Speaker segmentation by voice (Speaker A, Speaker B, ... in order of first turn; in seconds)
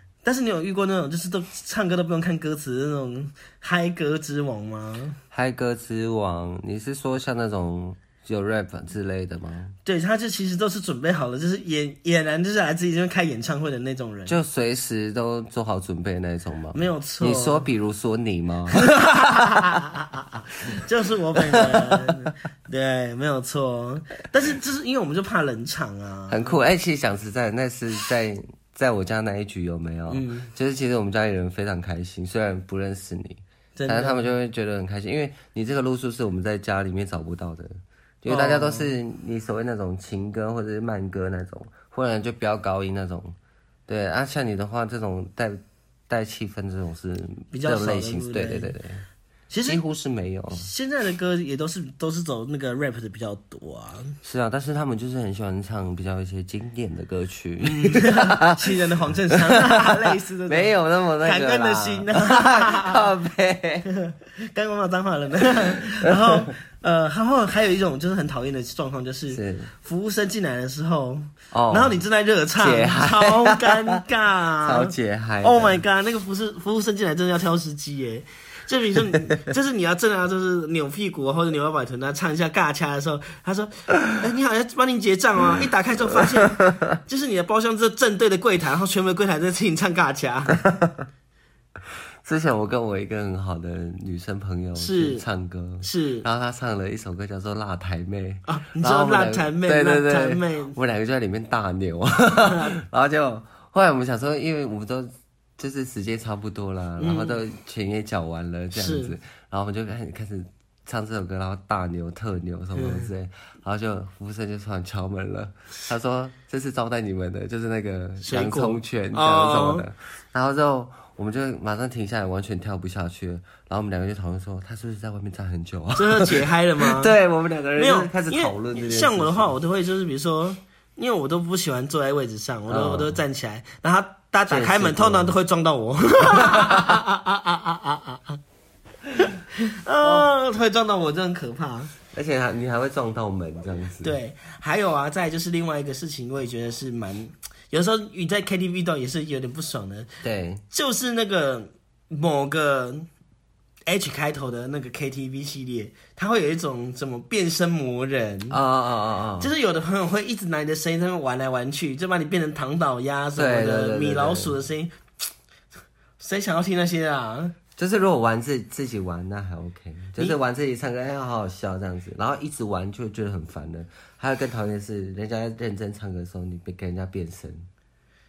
Speaker A: 0.2-5.2, 9.8-14.3, 16.7-17.6, 18.7-26.6, 30.1-30.5, 33.8-34.2, 38.3-38.9, 47.5-48.7, 49.5-49.8, 50.5-54.1, 57.6-63.1, 63.8-90.6, 94.8-95.2, 95.8-96.2, 98.5-100.8, 102.5-102.7, 107.0-107.4, 108.7-109.1, 112.7-113.1, 118.2-119.8, 126.0-127.1, 127.8-138.4, 139.2-141.9, 144.0-150.1, 150.7-153.1, 153.9-158.6, 159.4-164.9, 166.2-167.5
Speaker B: 5.3-9.7, 14.2-18.9, 21.5-22.0, 26.3-43.4, 43.9-49.0, 49.7-50.7, 54.2-58.8, 59.4-63.9, 65.8-66.5, 69.3-69.7, 71.5-72.0, 72.6-74.0, 74.6-75.8, 92.2-129.5, 132.7-133.2, 134.5-135.3, 136.3-137.0, 140.0-140.3, 142.1-144.2, 150.2-150.6, 158.5-159.5, 163.3-164.5, 167.8-177.7